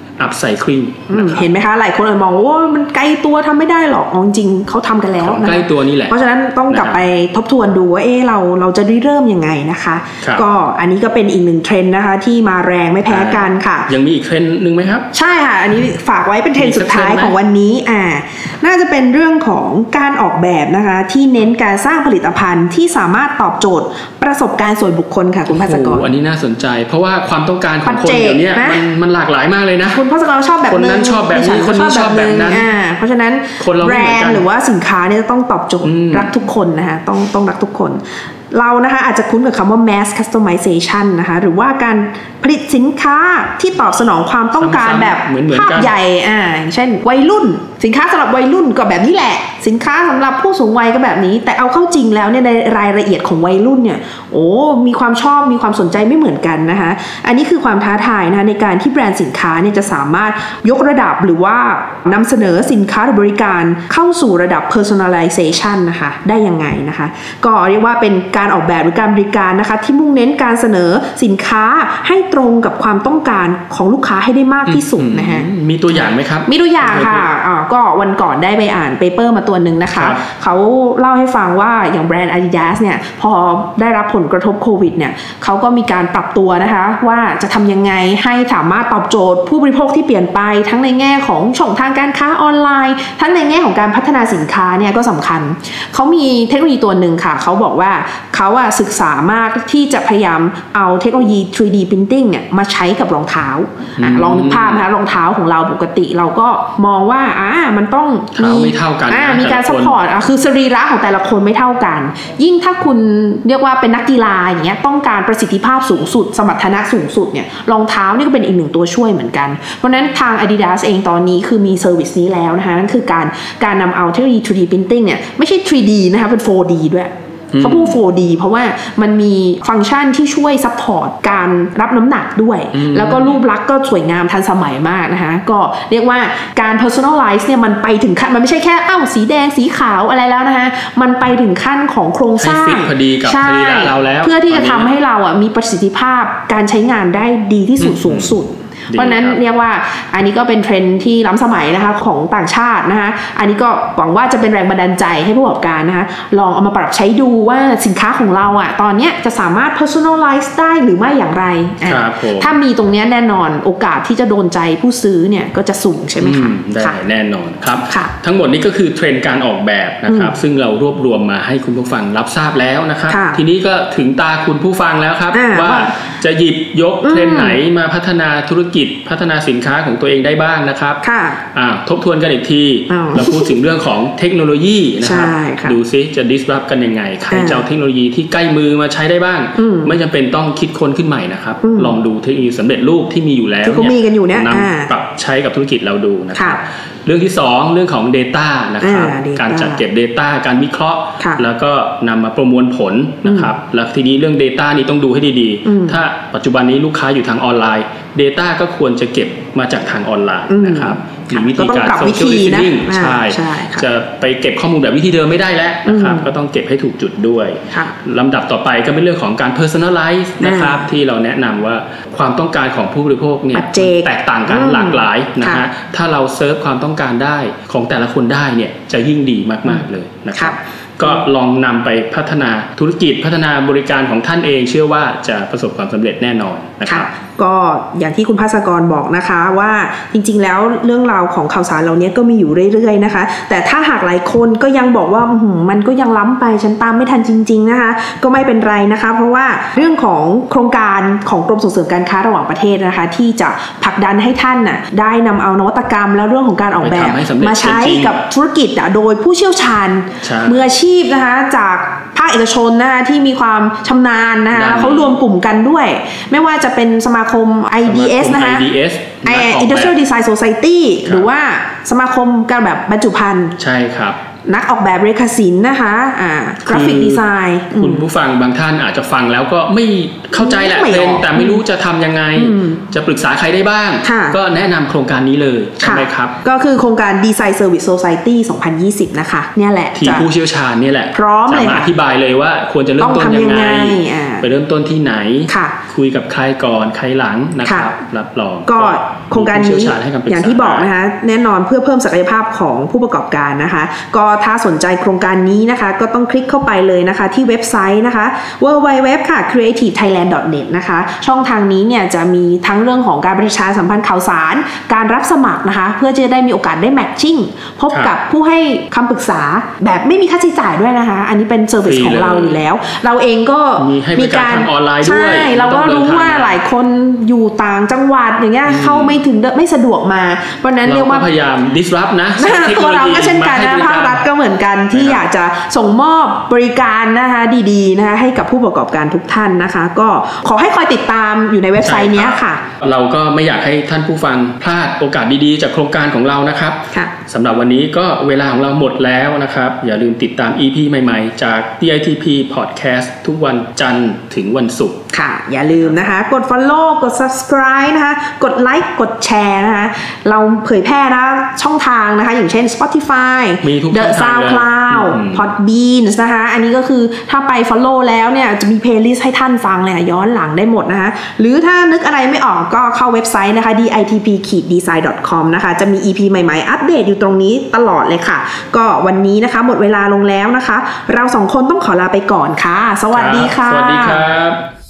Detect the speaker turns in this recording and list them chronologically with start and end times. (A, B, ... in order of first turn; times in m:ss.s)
0:00.2-0:01.4 A
0:01.1-0:13.9 B
0:05.2-0:06.1 A
0:06.7-0:07.0 A
0:13.1-0:15.1 A
0:15.1-0:26.1 B
0:16.6-0:17.3 A
0:25.5-0:30.0 A
0:27.8-0:28.8 B
0:29.9-2:47.0 B
0:30.7-0:32.7 A
0:33.6-0:34.4 A
0:35.8-0:36.3 A
0:44.6-0:45.9 A
1:14.7-1:17.3 A
1:19.9-1:20.2 A
1:44.0-1:44.8 A
1:48.3-1:50.0 A
2:07.5-2:08.0 A
2:12.7-2:13.4 A
2:22.4-2:24.9 A
2:27.8-2:28.3 A
2:28.9-2:29.4 A
2:41.8-2:42.5 A
2:46.2-3:01.0 A
2:47.9-2:48.1 B
2:50.1-2:50.4 B
2:53.1-2:53.4 B
2:55.3-2:55.9 B
2:57.0-2:57.6 B
3:01.0-3:01.4 B
3:01.5-3:57.1 A
3:02.9-3:03.5 B
3:05.0-3:05.8 B
3:07.3-3:07.6 B
3:09.6-3:10.0 B
3:11.6-3:12.0 B
3:13.6-3:14.9 B
3:16.3-3:16.6 B
3:18.8-3:19.8 B
3:21.2-3:21.4 B
3:23.2-3:23.5 B
3:25.6-3:26.0 B
3:30.5-3:33.9 B
3:35.9-3:36.3 B
3:40.4-3:40.9 B
3:43.5-3:45.6 B
3:49.7-3:51.2 B
3:56.9-4:28.7 B
4:16.8-4:18.1 A
4:20.2-4:20.7 A
4:24.5-4:25.2 A
4:27.8-4:29.9 A
4:29.2-4:33.6 B
4:33.6-4:34.2 A
4:34.4-4:38.1 B
4:36.6-4:37.2 A
4:37.7-4:46.4 A
4:40.3-4:41.6 B
4:42.4-4:42.8 B
4:44.0-4:44.4 B
4:45.8-4:50.3 B
4:49.9-5:00.9 A
4:51.1-4:51.9 B
4:53.0-4:54.5 B
4:55.5-4:55.8 B
4:57.6-4:57.9 B
4:58.6-5:31.3 B
5:21.8-5:22.6 A
5:23.8-5:26.6 A
5:28.6-5:29.2 A
5:30.8-5:34.2 A
5:32.4-5:42.6 B
5:34.9-5:35.2 A
5:41.8-5:55.0 A
5:55.1-6:24.2 B
6:03.6-6:05.5 A
6:23.1-6:24.6 A